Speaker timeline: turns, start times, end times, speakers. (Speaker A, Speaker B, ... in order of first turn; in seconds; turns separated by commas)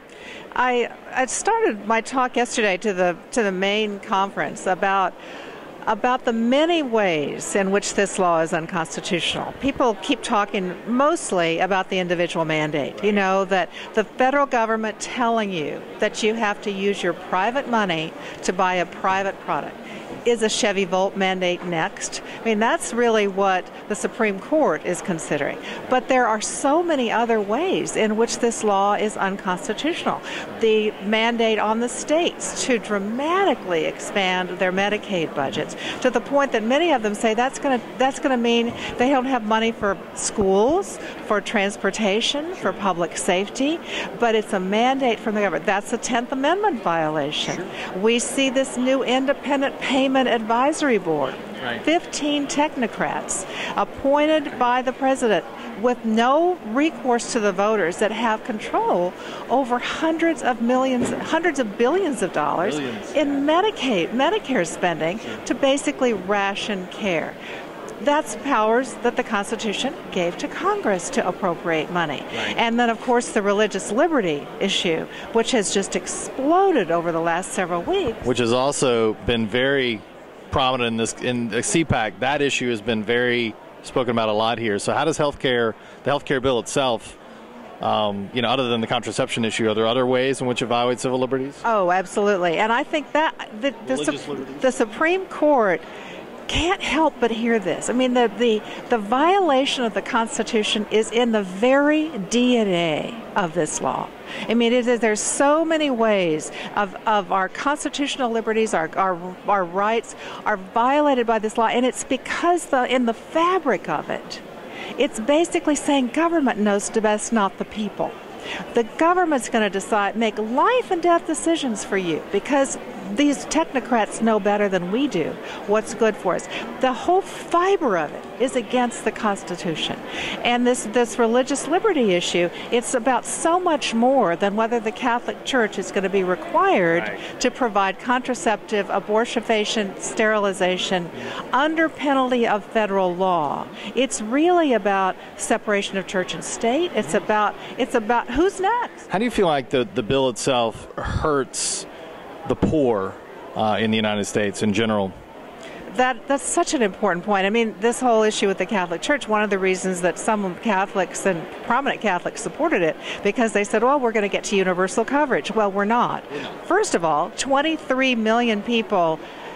Speaker A: 0.5-5.1, Speaker A: 5.8-67.4, Speaker B: 62.6-63.4, Speaker A: 68.0-78.2, Speaker B: 78.2-87.2, Speaker B: 87.8-91.6, Speaker A: 91.6-95.8, Speaker B: 93.8-94.7, Speaker A: 96.5-114.4, Speaker A: 115.0-118.1, Speaker A: 118.7-149.1, Speaker B: 149.1-151.9, Speaker B: 152.4-155.1, Speaker A: 155.9-169.2